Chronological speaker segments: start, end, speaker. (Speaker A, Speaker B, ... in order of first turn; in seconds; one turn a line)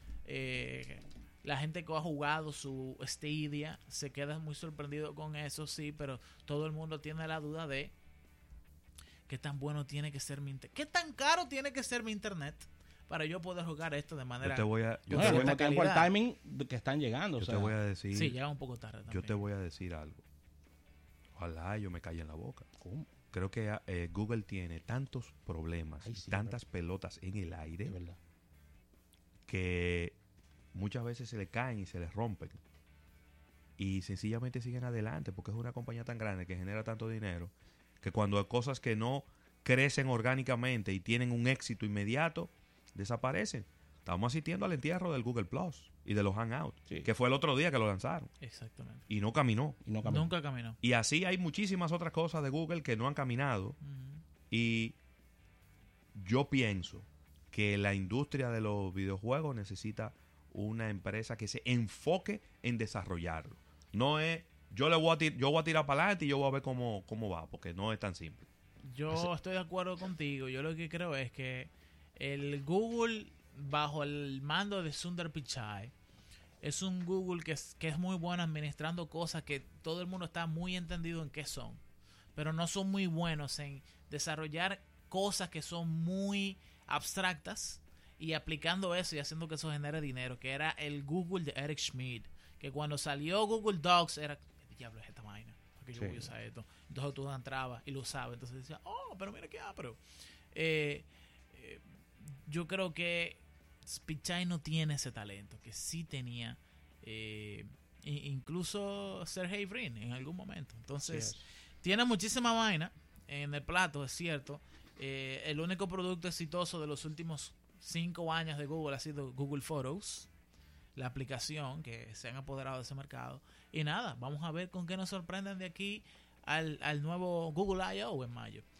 Speaker A: 0.2-7.9
Speaker A: 9.3-16.1
Speaker B: 14.4-15.5
Speaker C: 15.1-17.8
Speaker B: 17.4-18.4
Speaker A: 18.1-19.4
Speaker B: 19.1-20.2
Speaker B: 21.3-22.7
Speaker C: 22.8-23.1
Speaker B: 23.3-27.9
Speaker C: 26.0-26.6
Speaker C: 27.8-28.2
Speaker B: 29.5-30.1
Speaker B: 30.7-32.6
Speaker B: 33.8-48.3
Speaker A: 48.4-49.0
Speaker B: 49.1-49.8
Speaker C: 49.8-50.3
Speaker A: 50.0-50.8
Speaker B: 50.8-53.8
Speaker A: 53.8-54.2
Speaker B: 54.5-54.9
Speaker B: 56.1-68.4
Speaker A: 68.8-75.9
Speaker A: 76.6-81.8
Speaker A: 82.3-100.0
Speaker C: 95.9-96.3
Speaker A: 100.5-120.3
Speaker C: 111.0-111.4
Speaker A: 120.9-128.6